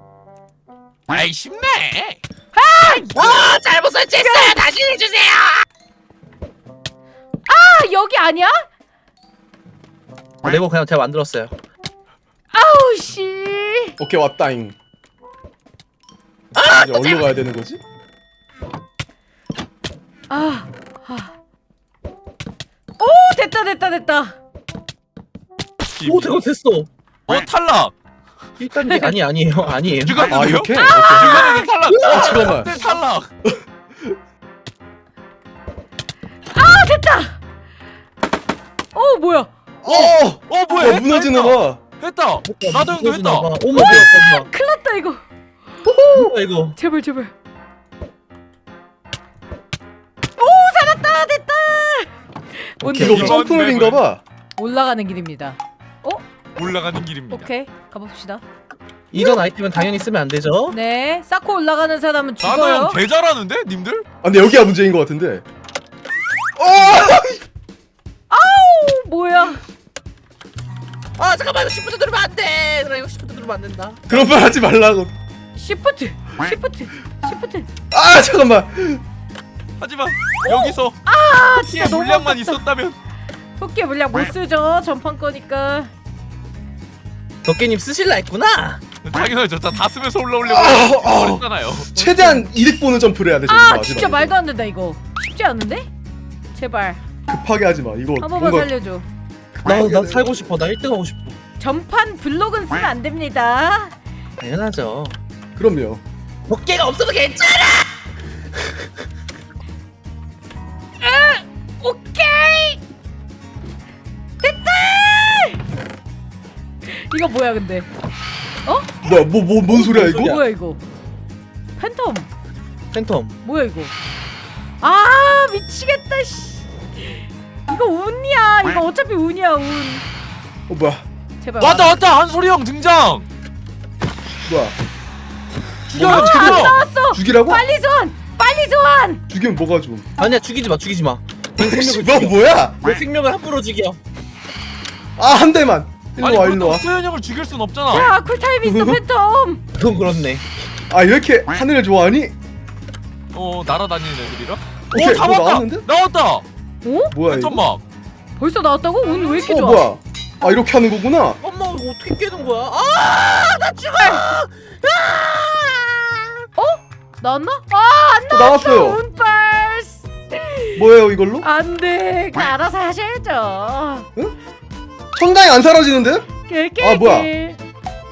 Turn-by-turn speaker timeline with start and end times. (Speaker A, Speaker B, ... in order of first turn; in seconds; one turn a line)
Speaker A: 1.1-2.2
Speaker B: 2.5-3.4
Speaker C: 2.9-5.6
Speaker B: 4.2-4.7
Speaker B: 7.5-8.6
Speaker C: 10.4-11.5
Speaker B: 12.5-14.0
Speaker D: 14.0-14.8
Speaker C: 16.6-17.3
Speaker D: 16.7-17.8
Speaker B: 20.3-21.3
Speaker B: 23.0-24.4
Speaker A: 26.0-26.4
Speaker C: 26.0-26.9
Speaker A: 27.3-27.9
Speaker C: 28.6-30.3
Speaker B: 28.9-29.2
Speaker A: 29.9-33.3
Speaker D: 30.3-32.9
Speaker B: 30.8-31.7
Speaker C: 31.9-32.6
Speaker B: 36.5-37.4
Speaker B: 38.9-39.5
Speaker D: 39.8-41.8
Speaker A: 39.9-43.7
Speaker C: 42.5-44.5
Speaker B: 43.7-45.2
Speaker D: 45.9-46.3
Speaker C: 46.1-46.8
Speaker B: 46.8-47.3
Speaker B: 50.4-53.4
Speaker D: 52.8-54.2
Speaker A: 53.0-54.0
Speaker B: 54.6-56.2
Speaker A: 56.6-57.5
Speaker B: 57.3-58.4
Speaker C: 59.1-60.8
Speaker B: 59.1-59.4
Speaker B: 60.7-63.0
Speaker A: 62.4-64.1
Speaker D: 64.2-65.4
Speaker D: 66.6-67.4
Speaker B: 68.3-69.6
Speaker C: 71.2-74.4
Speaker D: 74.1-75.1
Speaker B: 75.5-77.7
Speaker D: 77.9-79.0
Speaker A: 79.8-83.0
Speaker B: 80.4-82.7
Speaker B: 83.6-85.9
Speaker C: 87.4-88.8
Speaker A: 89.0-91.9
Speaker D: 90.4-94.3
Speaker B: 92.0-92.5
Speaker B: 93.5-95.9
Speaker B: 96.5-97.0
Speaker D: 97.3-98.7
Speaker B: 98.2-99.1
Speaker D: 99.5-100.4
Speaker C: 99.7-101.4
Speaker B: 101.6-103.9
Speaker C: 104.4-105.2
Speaker D: 105.6-106.0
Speaker C: 106.5-108.0
Speaker B: 111.0-112.8
Speaker B: 114.4-115.6
Speaker B: 116.8-117.9
Speaker B: 118.7-119.0
Speaker D: 119.0-120.4
Speaker C: 119.7-120.4
Speaker B: 119.9-120.8
Speaker B: 121.8-122.3
Speaker C: 122.9-123.4
Speaker B: 123.4-123.9
Speaker B: 124.8-130.0
Speaker D: 130.7-131.1
Speaker B: 131.4-132.0
Speaker A: 131.6-133.3
Speaker D: 134.5-134.8
Speaker A: 135.9-136.8
Speaker D: 135.9-137.7
Speaker B: 136.0-139.2
Speaker D: 139.3-140.1
Speaker C: 140.2-144.0
Speaker D: 141.6-142.8
Speaker D: 145.2-146.8
Speaker A: 146.2-148.1
Speaker B: 147.9-149.6
Speaker D: 148.6-149.0
Speaker C: 149.8-150.5
Speaker D: 150.9-152.3
Speaker A: 153.3-156.4
Speaker D: 154.9-155.9
Speaker B: 156.8-157.1
Speaker D: 157.1-157.6
Speaker A: 157.2-157.8
Speaker B: 158.4-159.9
Speaker D: 159.4-161.4
Speaker C: 161.4-166.5
Speaker B: 166.6-170.9
Speaker D: 168.3-169.0
Speaker D: 170.8-171.5
Speaker B: 171.4-174.1
Speaker D: 175.1-177.3
Speaker B: 176.5-177.6